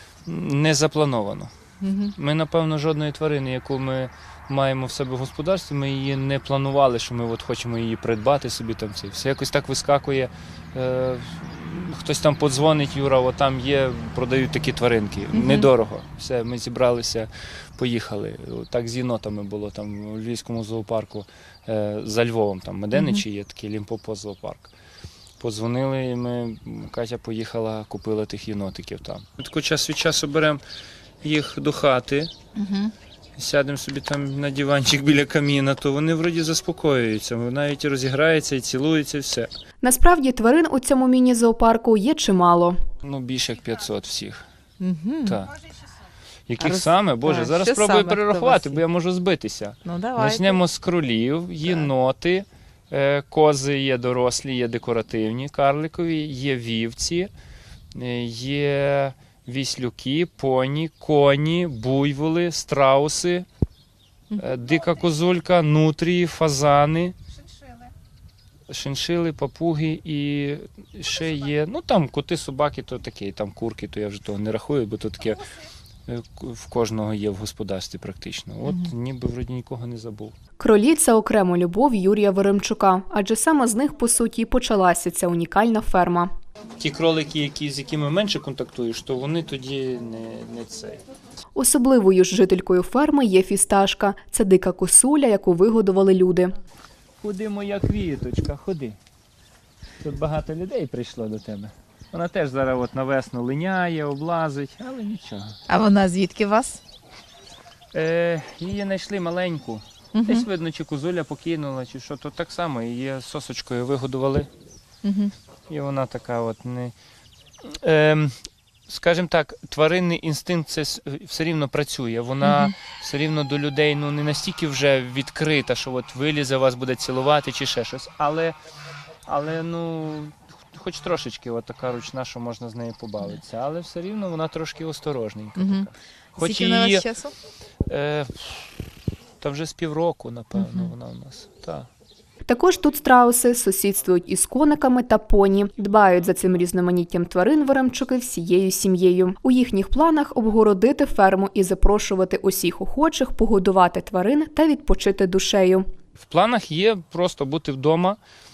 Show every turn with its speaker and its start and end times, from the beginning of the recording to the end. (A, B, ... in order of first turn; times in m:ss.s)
0:00.2-0:01.5 A
0:01.8-0:02.1 B
0:02.2-0:24.7 A
0:15.3-0:15.7 B
0:22.9-0:23.2 B
0:25.4-0:30.6 A
0:31.2-0:32.3 A
0:32.6-0:32.9 B
0:33.4-0:39.5 A
0:39.8-0:42.8 C
0:43.0-0:44.4 A
0:44.8-0:45.4 B
0:45.2-0:45.6 A
0:46.5-0:57.3 A
0:46.6-0:48.8 B
0:49.8-0:50.6 B
0:57.9-1:03.5 A
1:04.4-1:07.1 A
1:08.7-1:15.5 A
1:16.1-1:20.3 A
1:20.6-1:26.3 C
1:26.8-1:31.0 A
1:31.5-1:36.5 C
1:37.2-1:39.0 A
1:40.0-1:45.6 A
1:45.7-1:46.8 B
1:47.9-1:54.5 A
1:50.1-1:50.5 B
1:55.0-1:55.3 B
1:55.7-1:56.9 A
1:57.6-2:08.6 A
2:02.4-2:02.7 B
2:09.3-2:17.1 A
2:15.6-2:17.3 B
2:17.8-2:18.8 A
2:19.4-2:21.9 A
2:20.6-2:20.9 B
2:22.5-2:35.8 C
2:36.2-2:38.2 A